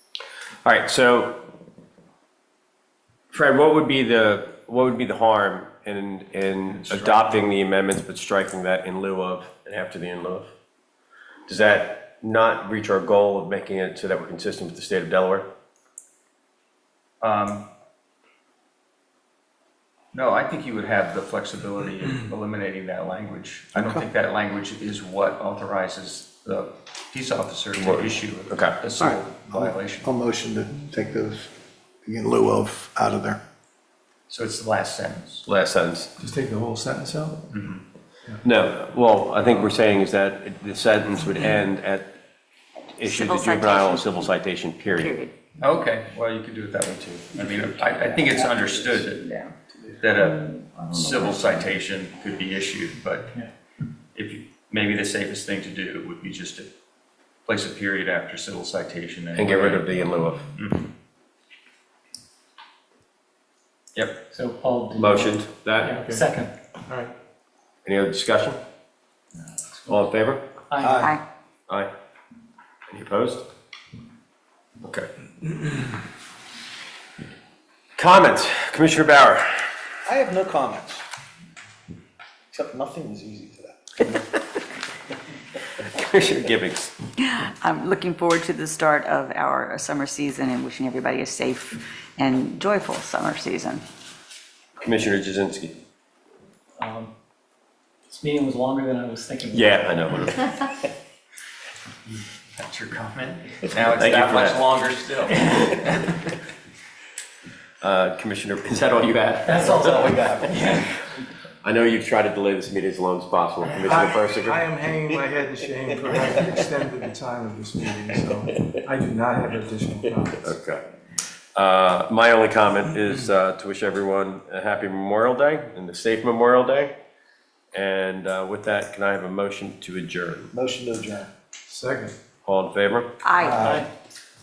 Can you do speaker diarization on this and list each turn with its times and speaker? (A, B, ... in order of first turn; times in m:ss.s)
0:00.6-0:01.5 A
0:03.3-0:10.5 A
0:06.9-0:07.2 B
0:11.5-0:15.5 A
0:17.2-0:17.7 B
0:20.1-0:30.1 B
0:23.7-0:24.0 C
0:27.8-0:28.8 A
0:29.0-0:31.5 C
0:32.0-0:33.4 C
0:34.3-0:35.4 B
0:35.4-0:36.1 A
0:36.2-0:37.5 D
0:37.5-0:37.8 B
0:38.4-0:42.1 A
0:43.0-0:45.1 A
0:43.0-0:44.3 E
0:44.8-0:45.3 E
0:45.6-0:49.2 B
0:48.0-0:49.0 F
0:50.0-0:53.4 B
0:50.6-0:51.2 F
0:54.1-0:56.7 B
0:57.4-0:59.8 B
0:59.3-1:00.5 A
1:00.5-1:00.9 B
1:03.9-1:04.2 B
1:04.3-1:06.5 F
1:05.0-1:06.1 A
1:07.8-1:08.6 A
1:09.9-1:10.5 A
1:10.7-1:11.0 F
1:10.8-1:11.2 C
1:12.9-1:13.4 A
1:14.8-1:15.1 A
1:18.0-1:19.7 A
1:20.0-1:21.0 C
1:22.5-1:23.9 C
1:25.8-1:26.9 A
1:27.2-1:33.8 E
1:34.8-1:35.8 A
1:36.8-1:37.1 F
1:38.1-1:39.9 F
1:39.5-1:40.7 A
1:42.1-1:46.2 B
1:43.8-1:44.6 A
1:47.8-1:50.8 A
1:49.4-1:50.9 F
1:49.8-1:50.5 C
1:51.6-1:54.6 A
1:53.8-2:00.4 D
2:00.4-2:00.8 A
2:01.5-2:07.0 A
2:07.7-2:10.5 A
2:10.5-2:11.3 C
2:11.7-2:12.1 D
2:12.4-2:13.1 A
2:13.2-2:13.7 E
2:13.5-2:13.8 C
2:13.5-2:13.9 F